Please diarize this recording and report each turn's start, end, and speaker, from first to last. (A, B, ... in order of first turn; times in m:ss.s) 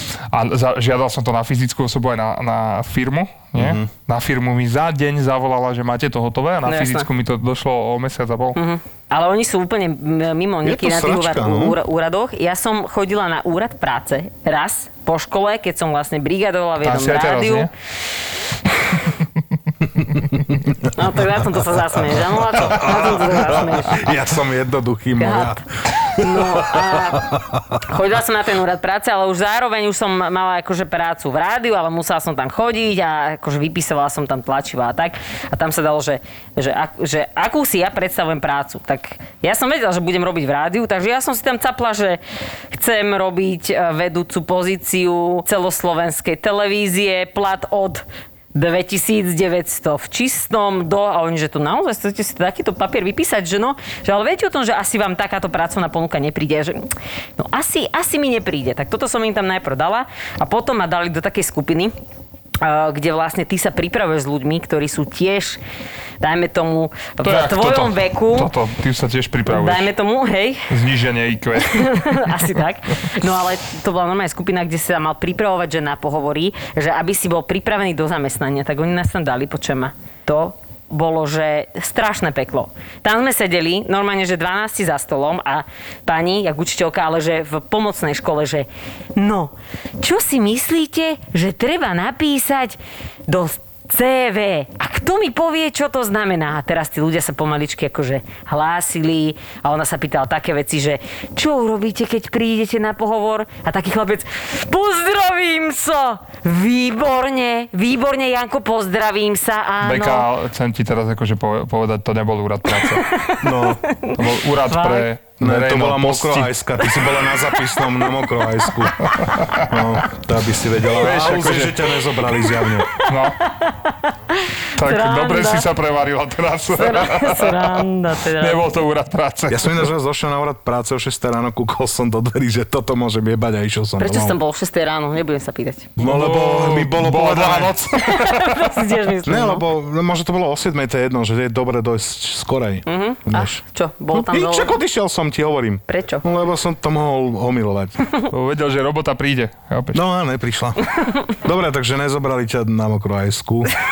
0:00.3-0:08.6 A
0:03.6-0:03.9 B
0:06.7-0:07.1 C
0:08.6-0:17.7 C
0:10.6-0:11.8 B
0:16.8-0:17.7 A
0:20.9-0:24.1 C
0:22.5-0:27.7 B
0:25.2-0:25.6 C
0:26.1-0:27.3 C
0:27.8-0:56.9 C
0:57.4-1:01.9 C
1:02.6-1:05.6 C
1:06.2-1:08.5 C
1:07.2-1:09.9 A
1:09.5-1:10.7 C
1:10.7-1:12.4 A
1:11.6-1:50.3 C
1:49.8-1:53.1 A
1:52.8-1:55.1 C
1:53.4-1:53.8 B
1:54.2-1:56.5 A
1:55.4-1:59.1 B
1:59.1-1:59.7 A
1:59.6-2:02.9 B
2:00.9-2:01.9 A
2:03.0-2:05.7 C
2:03.0-2:03.4 A
2:04.8-2:07.8 A
2:06.7-2:08.6 C
2:08.4-2:09.9 A
2:09.5-2:14.4 B
2:14.0-2:15.9 C
2:16.0-2:17.8 B
2:16.0-2:18.7 A
2:18.0-2:19.6 C
2:19.2-2:28.0 B
2:22.9-2:24.8 C
2:25.9-2:26.3 C
2:28.3-2:30.0 A
2:29.9-2:33.7 B